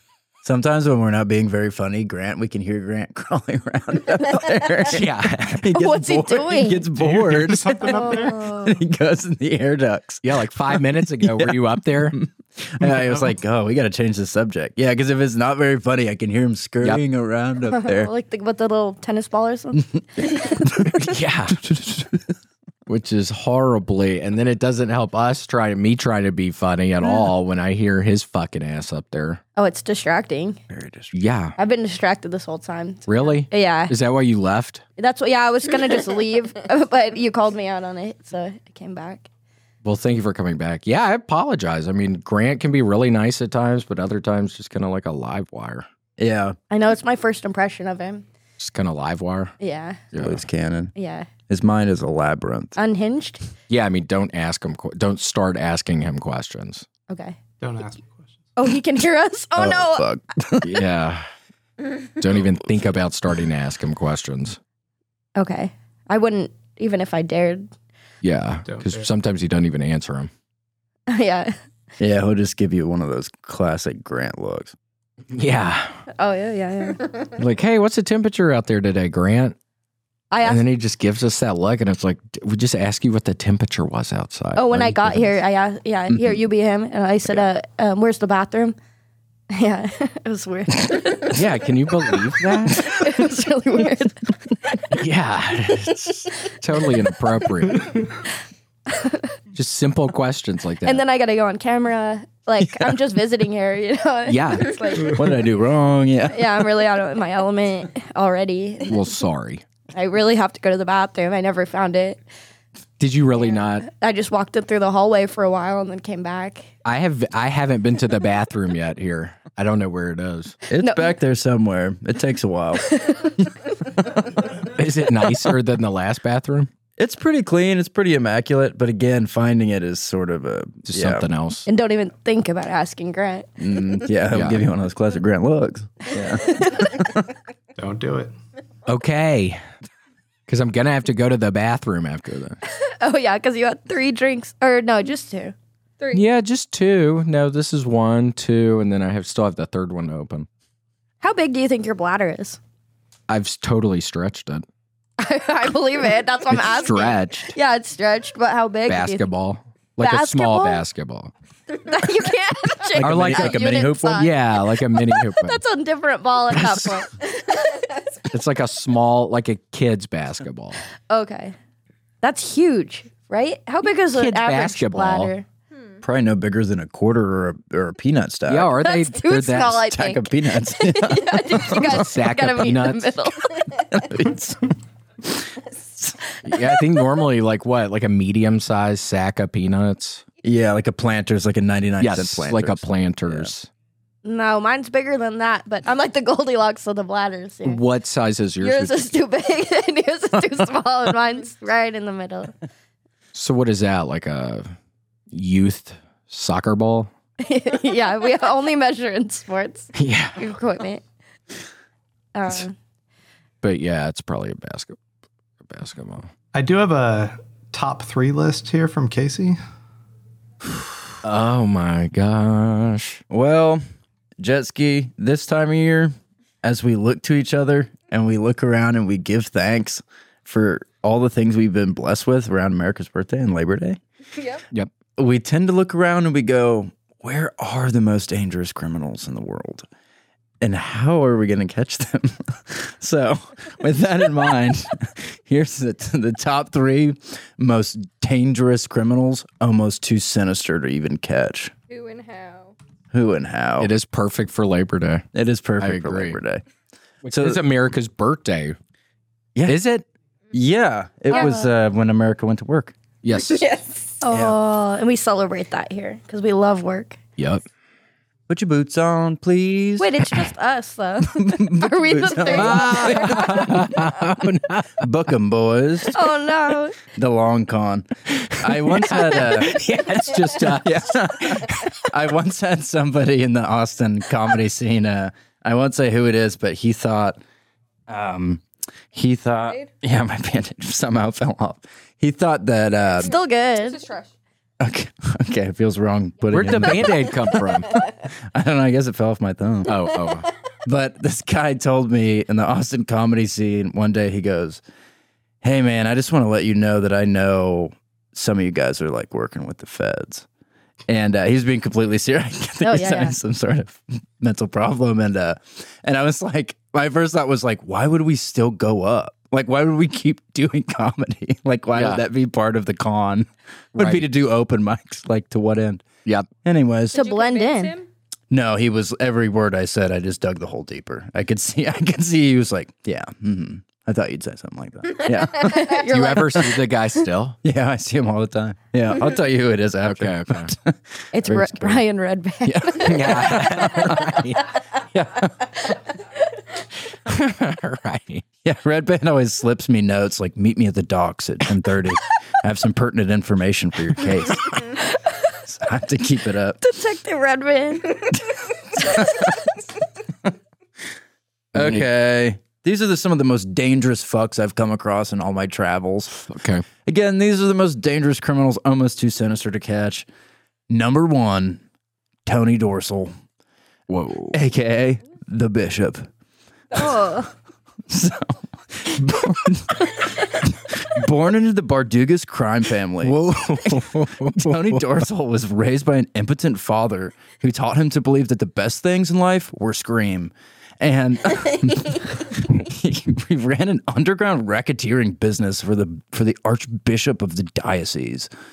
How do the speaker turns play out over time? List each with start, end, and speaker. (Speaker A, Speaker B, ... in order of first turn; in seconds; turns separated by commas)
Speaker A: 0.4-18.1, Speaker B: 4.9-5.7, Speaker C: 5.7-6.9, Speaker D: 7.0-8.4, Speaker C: 7.8-8.8, Speaker B: 10.2-12.2, Speaker C: 17.7-20.8, Speaker B: 20.9-21.6, Speaker A: 21.5-22.3, Speaker B: 22.9-29.4, Speaker C: 29.6-30.6, Speaker A: 30.7-31.2, Speaker B: 31.1-31.5, Speaker C: 31.6-33.9, Speaker B: 33.1-34.8, Speaker C: 35.0-39.3, Speaker B: 39.8-45.9, Speaker A: 46.2-46.6, Speaker C: 46.7-48.2, Speaker B: 48.6-49.5, Speaker C: 49.6-50.0, Speaker B: 50.1-50.4, Speaker A: 50.1-50.9, Speaker C: 51.0-51.3, Speaker A: 51.5-52.8, Speaker C: 52.8-53.5, Speaker B: 53.7-56.9, Speaker C: 57.1-57.4, Speaker D: 57.6-58.3, Speaker C: 58.5-60.1, Speaker A: 59.5-60.9, Speaker B: 60.6-61.2, Speaker B: 62.2-64.6, Speaker C: 65.3-67.7, Speaker B: 68.2-70.3, Speaker D: 68.6-69.1, Speaker C: 71.1-71.6, Speaker A: 72.0-74.7, Speaker B: 75.3-76.0, Speaker C: 76.1-77.0, Speaker B: 77.4-79.5, Speaker C: 80.3-80.6, Speaker B: 80.4-85.3, Speaker C: 84.5-88.8, Speaker C: 89.5-91.3, Speaker B: 91.3-93.1, Speaker C: 92.7-94.8, Speaker B: 94.9-98.0, Speaker C: 98.9-99.3, Speaker B: 99.5-101.0, Speaker C: 100.8-105.2, Speaker B: 104.2-104.8, Speaker A: 105.1-106.7, Speaker C: 106.3-109.0, Speaker B: 108.9-109.6, Speaker C: 109.9-112.2, Speaker B: 113.0-113.8, Speaker C: 113.7-116.7, Speaker B: 116.8-120.6, Speaker A: 120.7-123.4, Speaker C: 120.8-121.1, Speaker C: 122.9-123.3, Speaker B: 124.7-126.7, Speaker A: 127.0-131.3, Speaker B: 130.8-131.7, Speaker C: 131.7-133.5, Speaker A: 133.6-137.1, Speaker B: 134.3-134.6, Speaker C: 136.4-136.9, Speaker D: 137.8-138.3, Speaker B: 138.8-139.6, Speaker B: 140.5-142.6, Speaker C: 142.7-145.5, Speaker E: 146.0-146.3, Speaker B: 146.1-150.5, Speaker C: 151.2-152.6, Speaker B: 153.3-154.7, Speaker C: 155.2-159.3, Speaker B: 156.5-157.5, Speaker B: 158.9-161.3, Speaker C: 160.0-160.8, Speaker C: 161.8-167.2, Speaker A: 162.9-164.2, Speaker B: 162.9-165.6, Speaker B: 166.5-167.0, Speaker B: 168.3-170.8, Speaker C: 171.1-171.6, Speaker C: 172.2-175.4, Speaker B: 174.1-175.3, Speaker E: 175.7-176.0, Speaker A: 176.0-178.8, Speaker B: 178.5-179.8, Speaker C: 178.8-183.6, Speaker A: 179.8-182.0, Speaker B: 181.7-183.2, Speaker A: 183.9-184.7, Speaker A: 185.2-185.5, Speaker B: 186.4-190.2, Speaker A: 190.4-193.5, Speaker B: 192.0-193.7, Speaker C: 194.2-197.8, Speaker B: 197.6-199.1, Speaker C: 198.6-202.5, Speaker B: 203.3-204.7, Speaker B: 205.3-207.1, Speaker C: 207.4-211.0, Speaker B: 209.9-210.4, Speaker C: 212.3-212.7, Speaker B: 213.6-215.0, Speaker B: 215.6-216.3, Speaker D: 216.5-219.6, Speaker B: 221.2-223.2, Speaker A: 223.3-223.8, Speaker A: 224.4-234.0, Speaker E: 234.3-234.6, Speaker A: 235.2-239.9, Speaker A: 240.6-251.7, Speaker E: 251.9-252.7, Speaker A: 253.1-253.9, Speaker B: 253.8-255.2, Speaker A: 255.3-256.6, Speaker B: 255.8-256.4, Speaker B: 257.2-258.8, Speaker A: 257.3-257.6, Speaker B: 259.7-260.0, Speaker A: 260.5-262.9, Speaker C: 261.3-261.7, Speaker B: 263.2-263.7, Speaker E: 263.4-264.1, Speaker C: 264.2-267.2, Speaker A: 264.3-264.6, Speaker B: 267.4-267.6, Speaker A: 268.5-270.2, Speaker C: 270.0-273.9, Speaker A: 271.3-273.9, Speaker B: 272.6-275.0, Speaker A: 275.0-276.2, Speaker C: 276.1-277.0, Speaker A: 277.0-279.8, Speaker B: 278.4-281.7, Speaker A: 280.6-287.4, Speaker A: 288.1-293.3, Speaker C: 293.2-294.0, Speaker E: 293.2-294.3, Speaker A: 294.8-300.0, Speaker B: 296.5-297.9, Speaker B: 299.9-300.5, Speaker A: 300.9-304.8, Speaker A: 305.6-310.4, Speaker A: 311.1-326.1, Speaker C: 312.8-313.4, Speaker B: 321.9-322.2, Speaker B: 323.9-324.2, Speaker A: 326.6-327.1, Speaker E: 327.1-328.1, Speaker C: 327.1-327.9, Speaker A: 328.5-335.8, Speaker C: 335.6-336.7, Speaker B: 336.1-337.6, Speaker A: 337.6-342.0, Speaker B: 340.0-340.7, Speaker C: 341.3-343.6, Speaker A: 342.6-344.5, Speaker B: 343.0-344.7, Speaker A: 345.1-345.5, Speaker B: 347.3-348.4, Speaker A: 348.6-354.8, Speaker A: 355.6-356.8, Speaker C: 356.8-358.3, Speaker A: 359.0-359.4, Speaker C: 359.1-359.4, Speaker B: 361.7-362.1, Speaker A: 361.7-366.5, Speaker B: 366.5-366.9, Speaker A: 367.0-370.3, Speaker A: 370.9-371.8, Speaker A: 372.4-373.3, Speaker B: 374.1-374.6, Speaker A: 374.5-376.3, Speaker C: 376.9-377.5, Speaker A: 378.1-398.5, Speaker B: 383.2-385.1